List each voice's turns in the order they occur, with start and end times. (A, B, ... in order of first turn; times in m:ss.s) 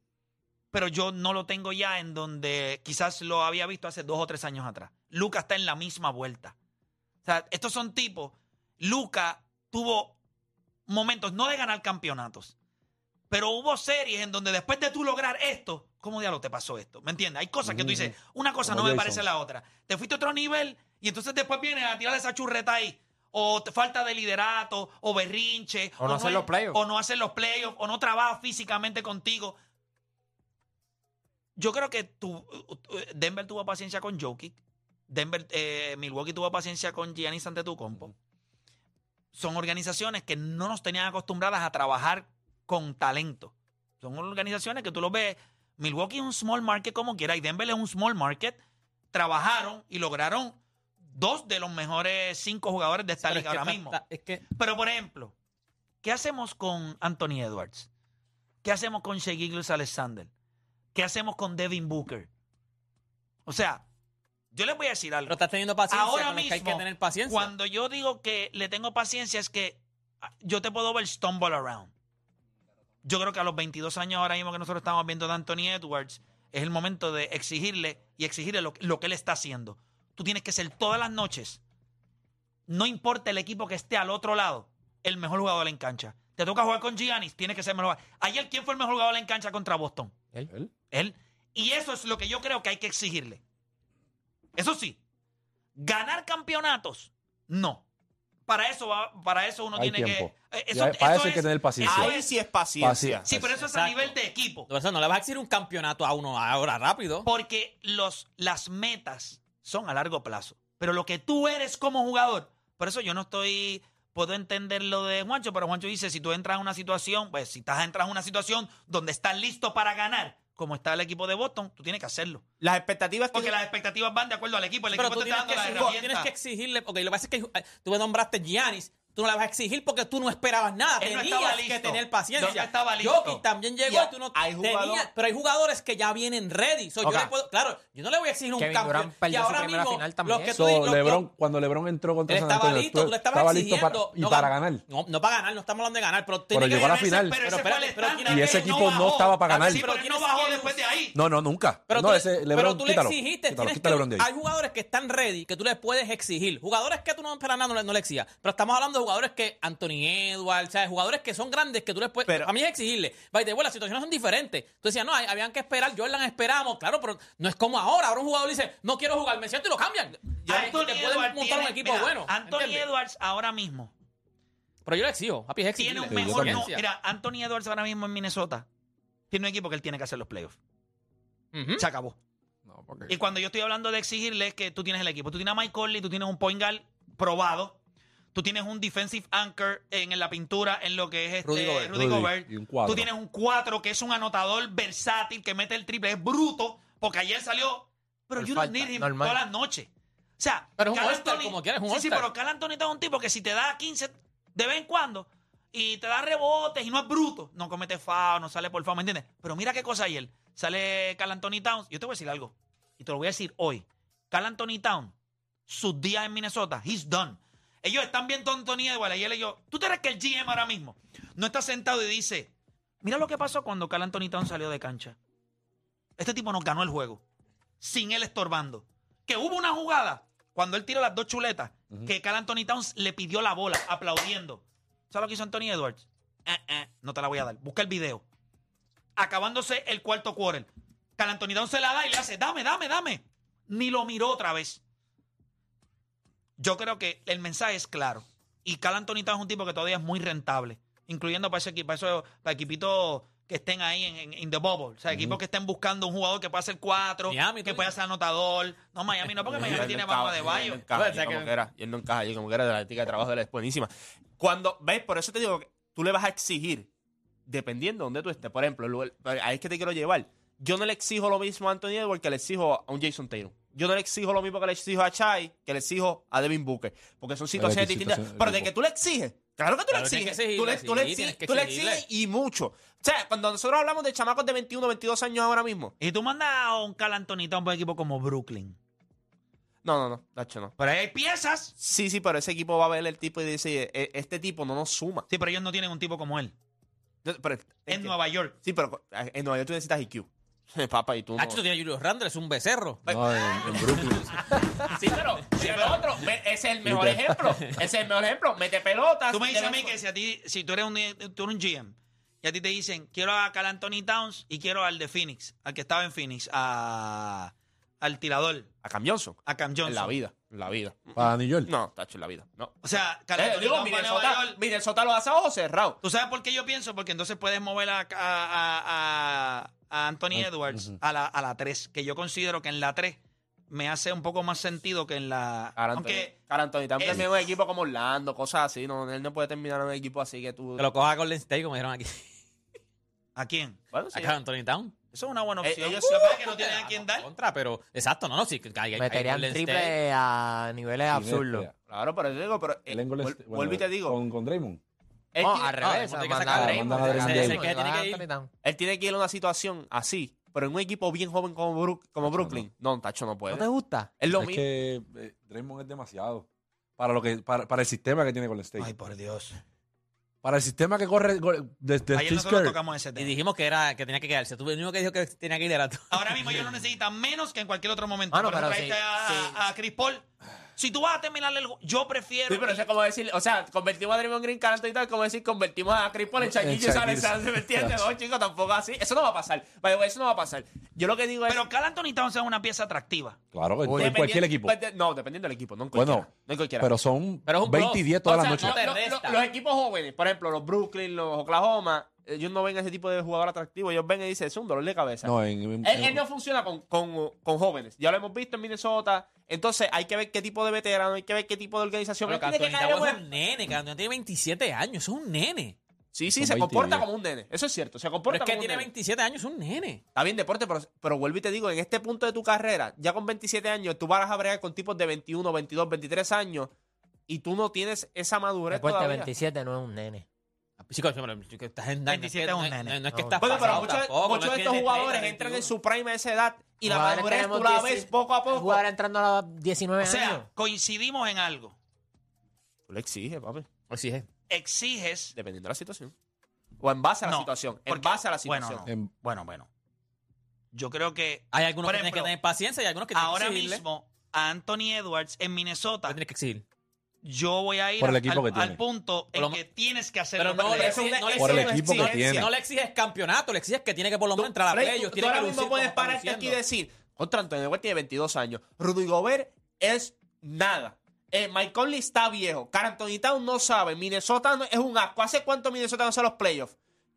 0:00.7-0:06.5 A
0:07.2-0:10.2 A
0:10.9-0:12.5 A
0:13.3-0:29.6 A
0:17.6-0:19.2 B
0:26.0-0:26.8 C
0:31.6-0:34.6 A
0:35.1-0:38.1 A
0:39.3-0:48.6 A
0:49.1-0:50.6 A
0:51.1-0:54.0 A
0:53.2-0:54.4 D
0:54.5-0:55.3 A
0:56.0-0:57.9 A
0:58.6-1:00.3 A
1:00.9-1:02.3 A
1:03.4-1:03.8 A
1:04.5-1:09.8 A
1:05.3-1:07.5 D
1:10.4-1:11.9 A
1:13.0-1:21.6 A
1:22.7-1:30.1 A
1:30.9-1:33.4 A
1:34.6-1:35.0 A
1:35.8-1:37.8 A
1:38.5-1:42.3 A
1:39.7-1:42.1 B
1:41.8-1:43.3 E
1:42.8-1:43.5 B
1:43.2-1:44.7 A
1:43.6-1:44.1 D
1:44.7-1:47.3 D
1:47.2-2:02.4 A
2:02.6-2:03.5 E
2:03.3-2:06.3 A
2:04.9-2:21.2 D
2:11.0-2:13.4 A
2:13.8-2:15.1 E
2:17.0-2:17.3 C
2:18.6-2:20.6 C
2:20.5-2:24.8 B
2:22.3-2:30.8 D
2:26.5-2:27.4 B
2:26.6-2:31.2 A
2:28.3-2:29.8 B
2:31.1-2:34.3 B
2:31.9-2:52.9 D
2:50.2-2:50.8 E
2:50.5-2:53.9 A
2:54.8-2:56.8 D
2:55.8-2:58.6 A
2:56.1-2:56.7 B
2:59.3-3:00.6 A
3:01.5-3:01.8 D
3:01.8-3:02.2 A
3:02.6-3:03.2 B
3:03.1-3:07.8 A
3:08.3-3:35.1 A
3:11.5-3:11.9 D
3:11.9-3:13.1 B
3:18.4-3:19.4 C
3:20.8-3:22.3 D
3:35.7-3:45.2 A
3:46.2-3:47.2 A
3:47.8-3:58.2 A
3:59.2-4:04.8 A
4:06.6-4:20.8 A
4:15.1-4:15.4 B
4:17.3-4:17.9 D
4:19.5-4:26.9 E
4:20.9-4:21.5 D
4:27.5-4:45.9 E
4:37.6-4:38.7 B
4:39.9-4:42.0 D
4:46.0-4:48.8 A
4:49.8-4:50.7 E
4:50.8-4:51.8 A
4:51.8-4:55.3 E
4:55.3-4:56.5 A
4:57.2-5:01.6 E
4:57.9-4:58.6 A
5:01.4-5:03.0 D
5:03.0-5:04.0 E
5:03.1-5:04.6 B
5:04.9-5:09.9 E
5:05.5-5:06.0 A
5:06.8-5:07.7 B
5:09.3-5:18.7 A
5:18.8-5:22.7 E
5:19.4-5:20.2 A
5:21.2-5:21.7 B
5:22.8-5:24.6 A
5:23.4-5:26.0 E
5:26.0-5:33.2 A
5:30.3-5:30.9 B
5:33.7-5:36.4 A
5:35.8-5:40.8 E
5:37.0-5:37.2 A
5:40.8-5:42.3 D
5:43.4-5:43.8 A
5:43.9-5:44.3 E
5:44.1-5:44.9 D
5:45.1-5:47.3 A
5:45.6-5:46.5 E
5:46.5-5:49.9 D
5:49.0-5:51.7 C
5:51.1-5:51.7 B
5:51.9-5:54.2 E
5:52.9-5:54.8 B
5:55.3-5:55.7 E
5:55.4-5:58.5 C
5:55.8-5:58.2 D
5:56.5-5:57.6 B
5:58.6-6:03.7 E
6:02.2-6:02.6 B
6:03.5-6:04.1 C
6:04.2-6:04.6 E
6:04.3-6:06.4 B
6:07.0-6:08.9 B
6:08.8-6:09.6 A
6:10.4-6:12.8 B
6:12.1-6:13.3 A
6:13.2-6:16.1 D
6:16.1-6:20.2 A
6:18.3-6:19.6 C
6:20.8-6:22.8 A
6:22.5-6:31.6 E
6:26.4-6:28.0 B
6:31.5-6:33.4 A
6:33.5-6:34.8 B
6:33.9-6:36.9 E
6:35.9-6:36.3 B
6:36.8-6:38.8 B
6:37.4-6:39.4 D
6:38.2-6:53.2 E
6:45.2-6:46.2 B
6:52.2-6:55.8 D
6:56.1-6:58.9 E
6:56.3-6:57.0 B
6:58.3-7:00.0 D
7:00.1-7:06.7 E
7:07.3-7:09.3 E
7:08.7-7:10.2 C
7:10.8-7:15.7 D
7:12.1-7:13.0 A
7:13.1-7:13.6 C
7:13.4-7:18.8 E
7:16.8-7:20.4 C
7:20.0-7:21.8 A
7:22.9-7:23.7 E
7:23.9-7:24.2 D
7:24.5-7:25.3 A
7:25.3-7:26.1 E
7:26.8-7:28.9 E
7:27.2-7:29.7 A
7:30.7-7:32.3 A
7:31.5-7:33.8 D
7:33.1-7:36.2 A
7:36.1-7:36.6 D
7:37.2-7:41.1 A
7:38.0-7:38.8 B
7:39.3-7:39.6 D
7:40.4-7:46.6 D
7:40.6-7:42.5 E
7:41.4-7:42.5 B
7:44.4-7:56.7 E